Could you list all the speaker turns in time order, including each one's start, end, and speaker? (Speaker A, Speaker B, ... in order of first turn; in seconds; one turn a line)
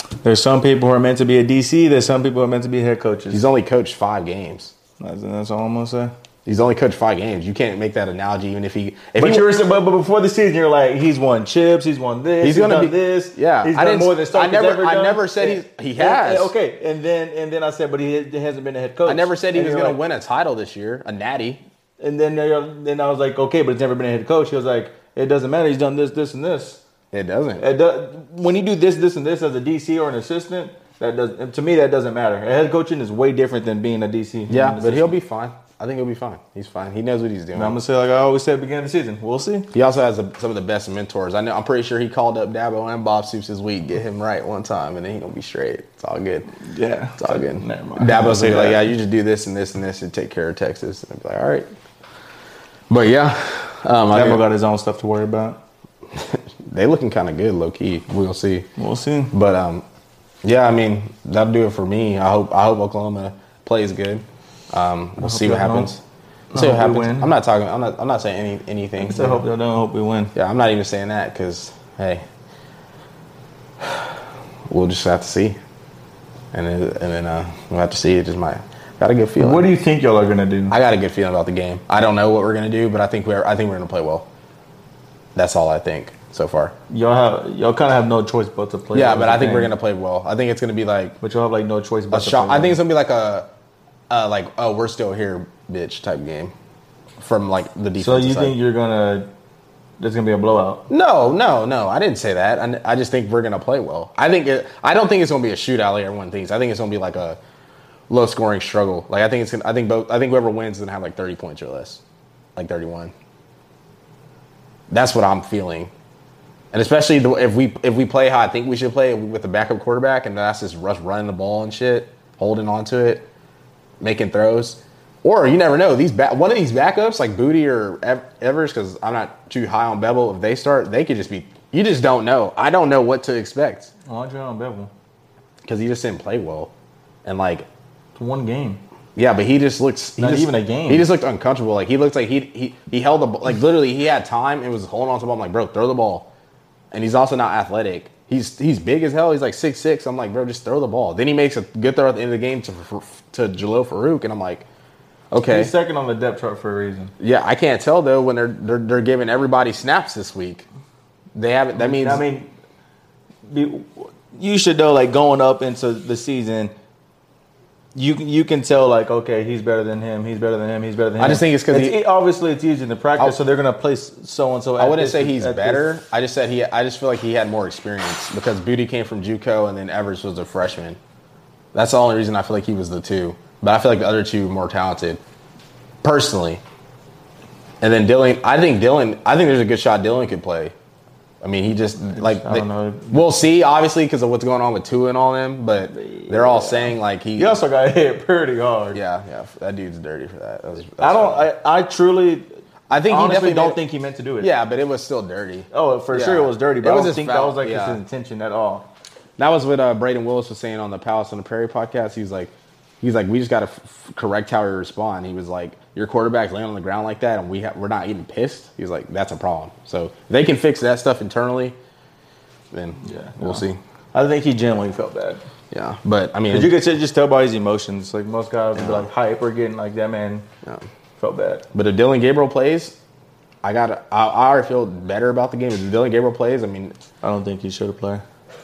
Speaker A: 0.2-3.4
Speaker B: 3.3-4.7
Speaker A: 5.0-6.1
Speaker B: 6.5-9.5
Speaker A: 9.2-20.0
Speaker B: 12.4-16.5
Speaker B: 19.1-21.6
Speaker A: 22.0-26.8
Speaker B: 27.1-27.6
Speaker A: 27.6-35.1
Speaker B: 34.5-37.8
Speaker A: 37.5-39.7
Speaker B: 39.7-46.5
Speaker A: 46.6-48.9
Speaker B: 47.2-51.7
Speaker B: 52.9-54.4
Speaker A: 54.1-55.6
Speaker B: 56.1-58.7
Speaker A: 58.8-59.3
Speaker B: 59.3-59.8
Speaker B: 60.4-66.0
Speaker A: 65.2-65.9
Speaker A: 66.5-67.3
Speaker B: 66.5-69.4
Speaker A: 69.0-70.3
Speaker B: 70.3-72.2
Speaker B: 73.8-74.1
Speaker B: 74.7-75.6
Speaker B: 76.5-79.7
Speaker A: 79.4-80.8
Speaker B: 80.7-84.3
Speaker B: 85.3-86.7
Speaker A: 86.9-89.7
Speaker B: 88.9-91.2
Speaker A: 91.2-92.8
Speaker B: 92.1-93.5
Speaker B: 94.1-96.5
Speaker B: 97.2-98.5
Speaker A: 98.0-99.3
Speaker A: 100.0-100.9
Speaker B: 100.9-107.4
Speaker B: 108.1-112.0
Speaker B: 112.5-113.1
Speaker B: 114.9-115.9
Speaker B: 116.7-123.3
Speaker B: 124.0-133.9
Speaker A: 134.1-134.9
Speaker B: 135.6-136.7
Speaker B: 137.2-137.7
Speaker A: 138.2-138.8
Speaker B: 139.2-146.3
Speaker A: 140.2-141.1
Speaker B: 146.9-154.7
Speaker B: 155.3-155.7
Speaker A: 155.4-157.1
Speaker B: 157.2-160.7
Speaker B: 161.3-162.2
Speaker A: 161.8-162.5
Speaker A: 163.4-166.7
Speaker A: 167.9-175.9
Speaker B: 171.2-172.0
Speaker B: 174.8-181.0
Speaker B: 181.7-185.2
Speaker B: 186.0-186.6
Speaker B: 187.8-190.7
Speaker B: 191.4-197.6
Speaker A: 192.1-193.4
Speaker A: 195.8-199.0
Speaker B: 198.9-201.4
Speaker A: 201.0-202.5
Speaker B: 202.9-203.8
Speaker A: 203.0-204.5
Speaker B: 204.4-208.0
Speaker A: 205.7-208.9
Speaker B: 209.4-221.8
Speaker B: 222.7-223.8
Speaker A: 223.0-225.4
Speaker B: 225.7-226.8
Speaker A: 226.5-230.5
Speaker B: 228.8-229.1
Speaker A: 231.2-231.7
Speaker B: 231.7-233.0
Speaker B: 233.6-237.0
Speaker A: 237.2-238.2